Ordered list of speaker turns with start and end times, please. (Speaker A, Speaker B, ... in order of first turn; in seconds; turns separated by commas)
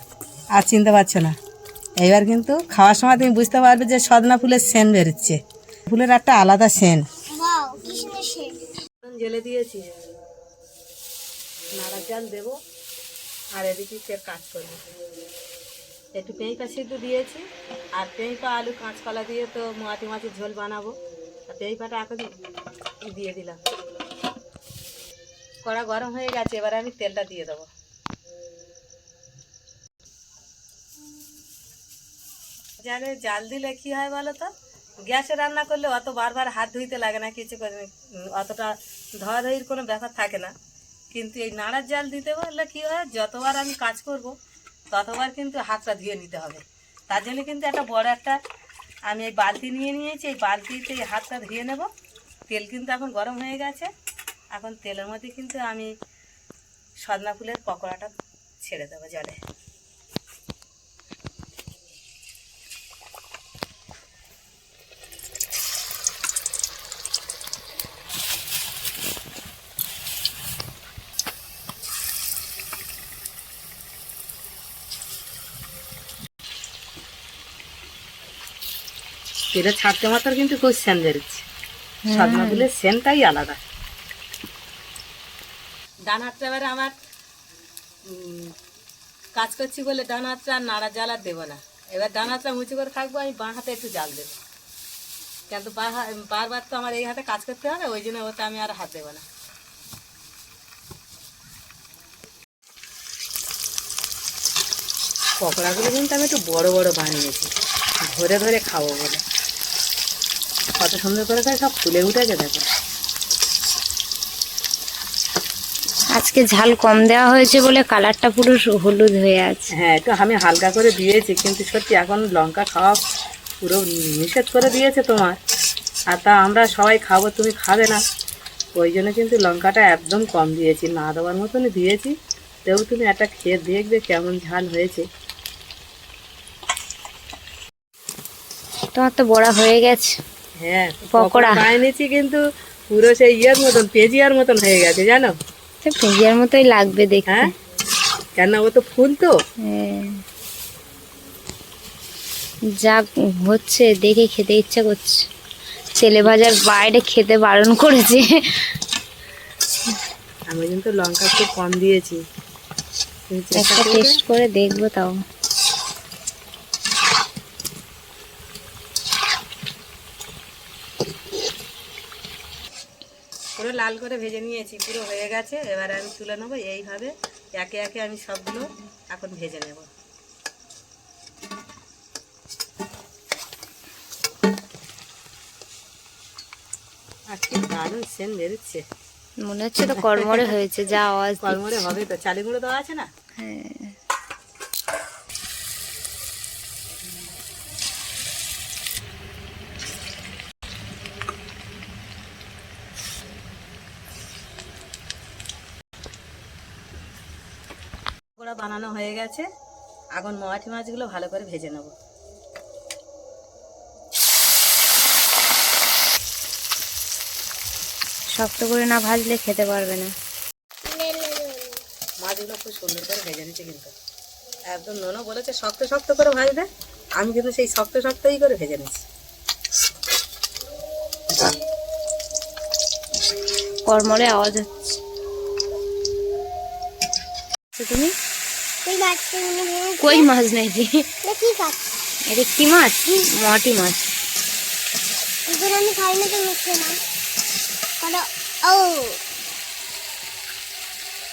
Speaker A: 0.5-1.3, Speaker A: 2.0-7.0, Speaker B: 7.3-8.6, Speaker A: 9.0-9.9, Speaker A: 11.8-12.6, Speaker A: 13.5-14.8, Speaker A: 16.1-17.4, Speaker A: 17.9-20.9, Speaker A: 21.5-22.3, Speaker A: 23.1-23.6, Speaker A: 25.6-27.7, Speaker A: 32.8-34.5, Speaker A: 35.0-40.5, Speaker A: 41.1-44.3, Speaker A: 44.9-48.4, Speaker A: 49.1-51.9, Speaker A: 52.5-53.9, Speaker A: 54.5-55.9, Speaker A: 57.0-59.4, Speaker A: 79.5-81.4, Speaker C: 82.1-82.7, Speaker A: 82.1-83.6, Speaker A: 86.1-86.9, Speaker A: 88.1-88.5, Speaker A: 89.3-94.4, Speaker A: 95.5-99.2, Speaker A: 105.4-107.5, Speaker A: 108.0-109.2, Speaker A: 110.8-112.7, Speaker C: 116.1-119.7, Speaker A: 119.7-123.0, Speaker A: 123.6-125.4, Speaker A: 126.1-128.0, Speaker A: 128.7-132.1, Speaker A: 132.7-135.0, Speaker C: 138.9-140.2, Speaker A: 140.6-145.3, Speaker C: 141.1-141.6, Speaker C: 145.8-147.4, Speaker A: 148.3-149.3, Speaker C: 149.6-150.2, Speaker C: 152.8-155.2, Speaker C: 156.0-158.7, Speaker A: 160.5-162.2, Speaker A: 163.3-164.2, Speaker C: 163.6-165.2, Speaker A: 173.6-179.9, Speaker A: 187.3-188.8, Speaker C: 189.4-191.9, Speaker A: 190.0-190.6, Speaker A: 191.4-193.1, Speaker C: 193.4-193.9, Speaker A: 208.4-209.5, Speaker A: 210.2-211.9, Speaker C: 218.4-220.1, Speaker B: 220.8-221.8, Speaker A: 222.2-223.9, Speaker A: 224.7-226.7, Speaker A: 227.2-229.0, Speaker C: 233.8-235.0, Speaker C: 237.8-238.1, Speaker B: 238.8-240.3, Speaker C: 240.0-241.1, Speaker B: 241.2-241.8, Speaker C: 242.3-244.1, Speaker B: 245.5-247.0, Speaker B: 248.0-249.2